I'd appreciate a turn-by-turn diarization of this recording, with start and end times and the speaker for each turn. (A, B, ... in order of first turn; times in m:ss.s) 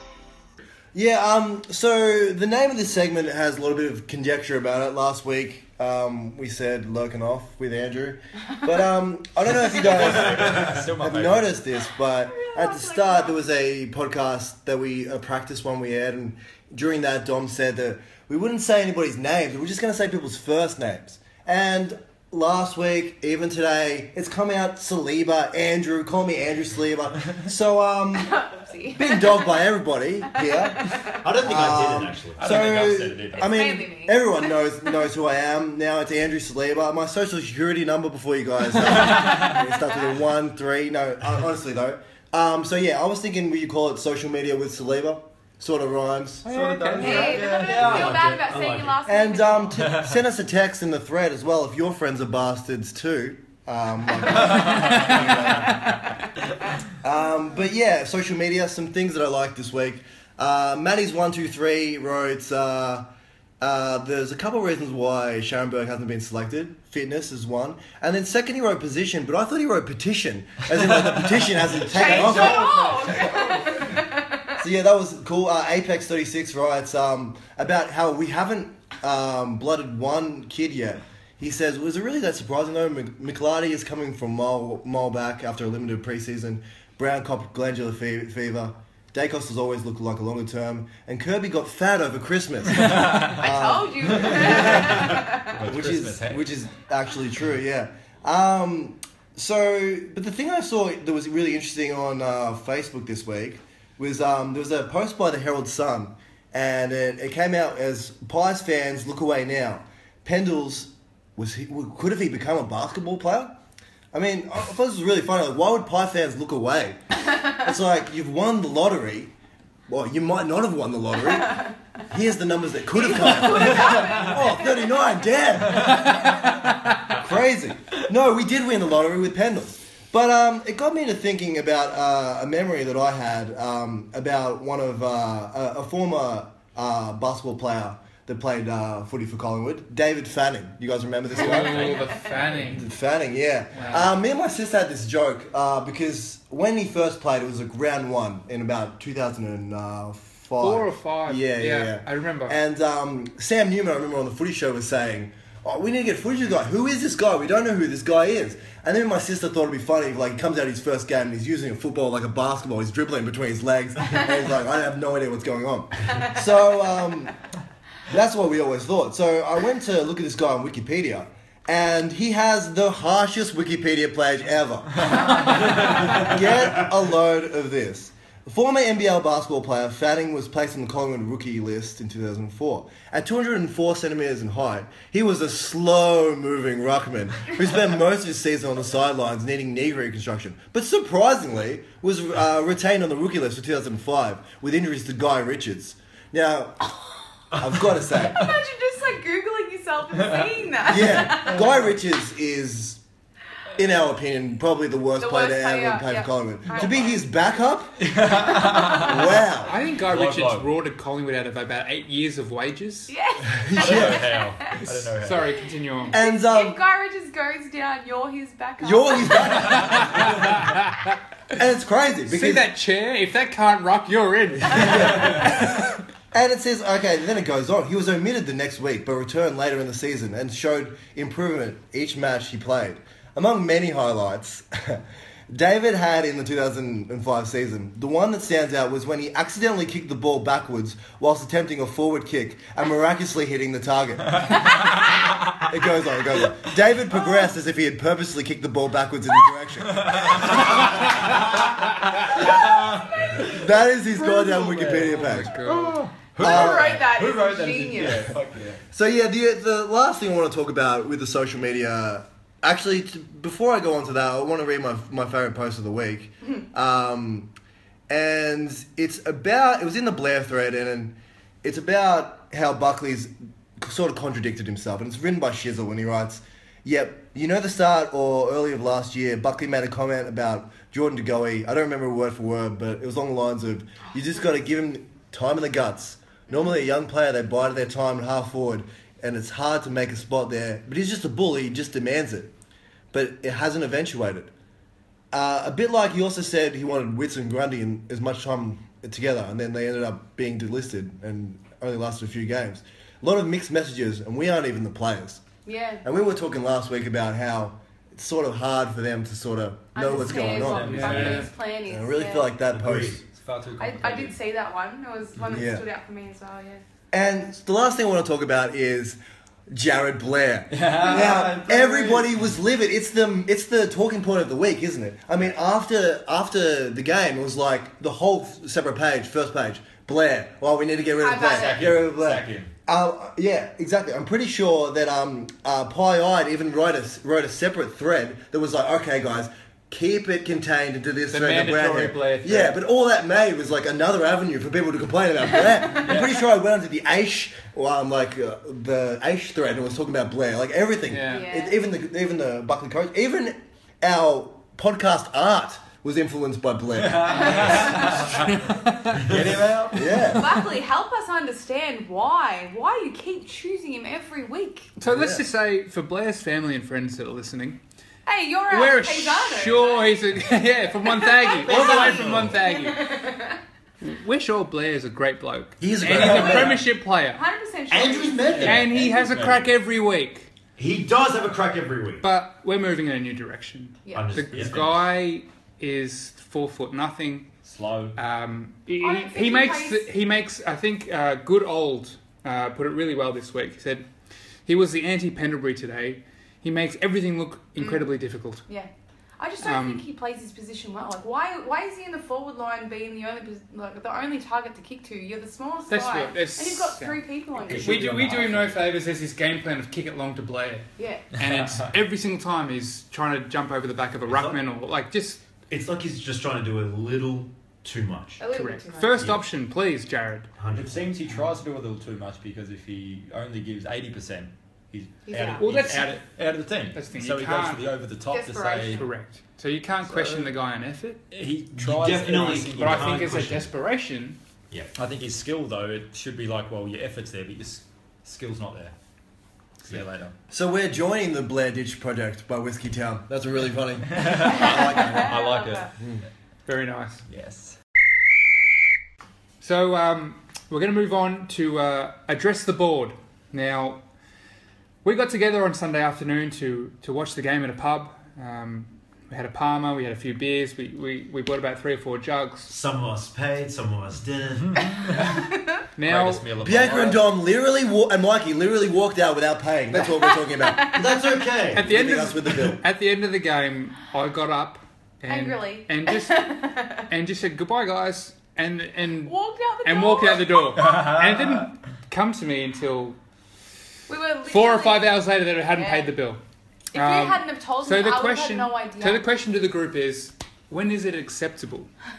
0:00.9-0:28.4 A
0:09.5-0:11.6 B
0:12.2-0:13.4 C
0:28.2-0:29.6 C
0:28.9-0:46.5 A
0:30.4-0:31.2 C
0:31.2-0:32.5 D
0:32.4-0:33.6 B
0:33.3-0:34.5 C
0:46.5-0:47.4 E
0:46.5-0:48.2 B
0:47.0-0:49.8 C
0:47.0-0:49.0 D
0:49.1-0:56.0 A
0:54.5-0:55.1 B
0:57.0-1:03.1 A
1:03.6-1:13.9 A
1:11.8-1:14.6 C
1:12.4-1:12.8 B
1:14.6-1:53.6 A
1:32.9-1:33.3 B
1:33.4-1:35.6 C
1:34.2-1:36.5 B
1:54.1-1:59.3 A
1:59.9-2:06.5 A
2:02.9-2:04.8 C
2:03.8-2:04.0 B
2:07.0-2:22.1 A
2:21.3-2:22.9 E
2:21.6-2:22.2 C
2:22.6-2:47.4 A
2:23.8-2:24.1 E
2:30.6-2:32.6 E
2:48.1-3:17.0 A
2:56.0-2:56.3 D
3:17.5-3:18.5 A
3:18.2-3:21.7 C
3:20.8-3:23.0 A
3:23.8-3:28.0 A
3:25.2-3:27.3 C
3:28.0-3:29.4 B
3:28.8-3:29.7 A
3:29.6-3:33.1 E
3:30.0-3:30.7 B
3:33.1-3:34.8 C
3:33.6-3:34.3 A
3:33.7-3:35.5 B
3:35.2-3:36.2 E
3:36.1-3:40.1 C
3:36.1-3:36.8 A
3:38.8-3:40.5 A
3:39.7-3:41.2 E
3:41.6-3:42.7 A
3:42.3-3:45.5 E
3:44.7-4:04.7 A
4:05.6-4:10.8 A
4:10.0-4:11.5 B
4:10.9-4:11.3 D
4:12.4-4:13.5 C
4:12.4-4:13.5 B
4:13.4-4:15.6 A
4:14.6-4:18.8 B
4:14.9-4:16.0 E
4:16.4-4:18.3 C
4:16.4-4:17.0 A
4:18.9-4:27.5 A
4:28.1-4:52.5 A
4:53.1-4:54.5 A
4:55.3-5:05.5 A
5:05.6-5:06.0 C
5:06.0-5:13.2 A
5:09.9-5:12.6 C
5:10.3-5:11.5 B
5:10.8-5:11.5 E
5:12.7-5:13.2 D
5:12.9-5:14.4 B
5:13.8-5:16.8 C
5:15.5-5:15.8 A
5:17.1-5:19.2 A
5:19.7-5:58.2 A
5:20.7-5:22.4 B
5:31.2-5:31.9 C
5:31.5-5:32.7 B
5:41.3-5:42.8 E
5:46.0-5:46.3 B
5:51.1-5:51.5 E
5:51.3-5:51.8 C
5:57.0-5:58.6 B
5:57.5-5:58.2 C
5:58.5-5:59.2 E
5:59.1-6:00.3 B
5:59.9-6:00.6 A
6:00.3-6:04.9 C
6:05.0-6:07.8 E
6:05.0-6:05.4 A
6:08.3-6:10.5 C
6:08.7-6:13.2 E
6:11.0-6:13.6 C
6:11.6-6:12.5 D
6:14.0-6:17.4 E
6:15.8-6:16.8 D
6:16.1-6:16.7 B
6:17.3-6:18.6 C
6:17.9-6:19.3 D
6:18.5-6:19.6 B
6:18.6-6:20.5 E
6:20.8-6:22.2 D
6:22.2-6:27.5 E
6:24.0-6:24.4 C
6:24.1-6:25.0 D
6:24.5-6:24.9 B
6:27.6-6:28.2 B
6:28.2-6:34.1 E
6:29.0-6:30.1 C
6:34.7-6:38.6 E
6:37.8-6:38.1 C
6:38.7-6:48.4 C
6:39.6-6:40.0 E
6:45.9-6:55.4 E
6:47.6-6:48.9 B
6:48.0-6:48.5 D
6:51.0-6:51.3 C
6:51.4-6:51.9 B
6:54.3-6:54.6 D
6:55.7-6:58.4 D
6:58.4-6:59.3 C
6:58.5-7:00.5 E
7:00.6-7:01.4 D
7:00.7-7:09.0 B
7:05.3-7:05.6 C
7:05.6-7:06.2 E
7:06.9-7:07.8 E
7:08.3-7:09.1 C
7:08.9-7:11.2 E
7:10.1-7:10.5 B
7:11.3-7:13.6 B
7:11.8-7:13.7 D
7:12.4-7:14.4 E
7:15.0-7:18.9 B
7:19.8-7:20.3 B
7:20.5-7:25.3 A
7:24.1-7:25.9 B
7:24.4-7:25.9 C
7:26.7-7:27.2 E
7:27.3-7:27.8 B
7:29.6-7:34.0 E
7:35.0-7:42.7 E
7:42.7-7:45.1 D
7:44.6-7:45.3 B
7:44.9-7:45.8 C
7:46.0-7:46.5 E
7:46.0-7:47.3 B
7:46.6-7:51.1 A
7:50.1-7:51.0 C
7:50.9-7:51.9 D
7:51.7-7:52.8 A
7:51.7-8:03.2 E
7:55.3-7:57.1 C
7:59.2-8:00.9 C
8:00.8-8:01.6 B
8:04.1-8:06.2 C
8:04.5-8:06.4 E
8:06.9-8:09.3 C
8:06.9-8:11.9 E